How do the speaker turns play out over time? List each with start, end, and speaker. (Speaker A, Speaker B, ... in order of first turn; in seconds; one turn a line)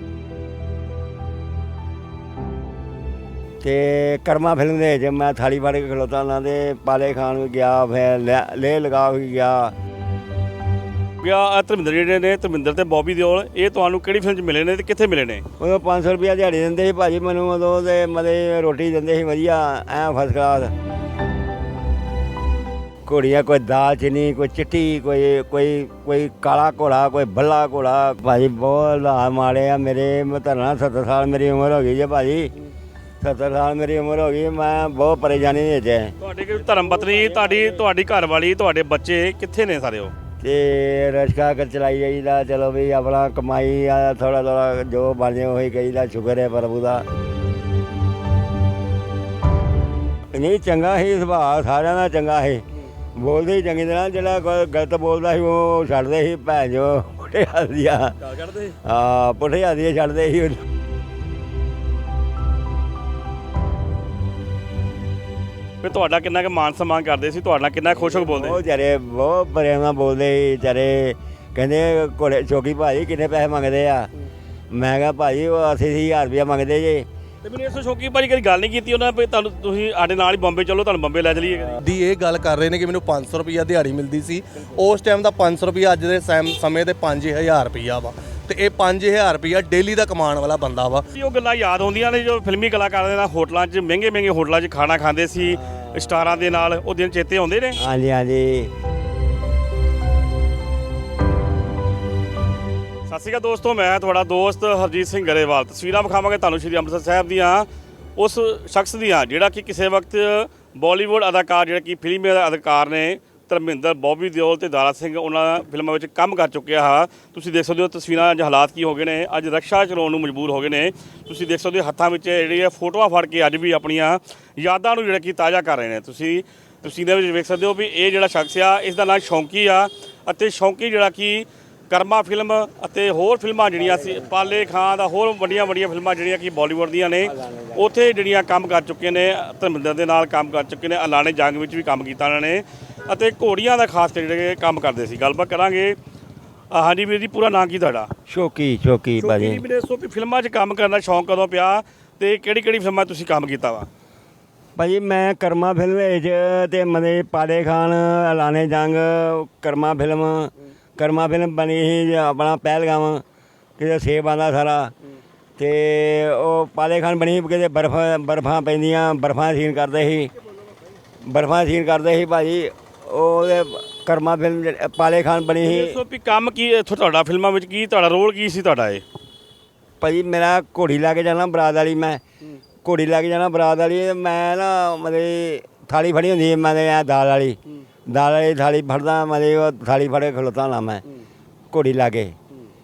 Speaker A: 3.6-9.7
Speaker B: 11.2-15.4
Speaker A: 15.6-20.7
Speaker A: 23.1-32.5
Speaker A: 33.2-36.1
Speaker B: 36.2-40.1
Speaker A: 37.0-37.6
Speaker A: 40.4-47.0
Speaker A: 50.3-52.6
Speaker A: 53.1-58.1
Speaker B: 58.3-58.7
Speaker A: 58.8-60.6
Speaker B: 65.8-68.6
Speaker A: 67.9-74.1
Speaker A: 74.7-77.0
Speaker B: 77.4-81.8
Speaker C: 81.8-91.1
Speaker B: 91.1-97.8
Speaker A: 97.8-98.7
Speaker B: 103.1-145.9
Speaker A: 133.9-134.4
Speaker A: 137.2-137.8
Speaker B: 146.7-148.1
Speaker A: 148.3-149.6
Speaker B: 149.2-153.9
Speaker A: 154.8-163.2
Speaker A: 163.8-164.9
Speaker A: 165.6-170.3
Speaker A: 171.2-176.0
Speaker B: 175.6-179.0
Speaker A: 180.0-182.2
Speaker A: 182.8-191.0
Speaker A: 191.7-192.3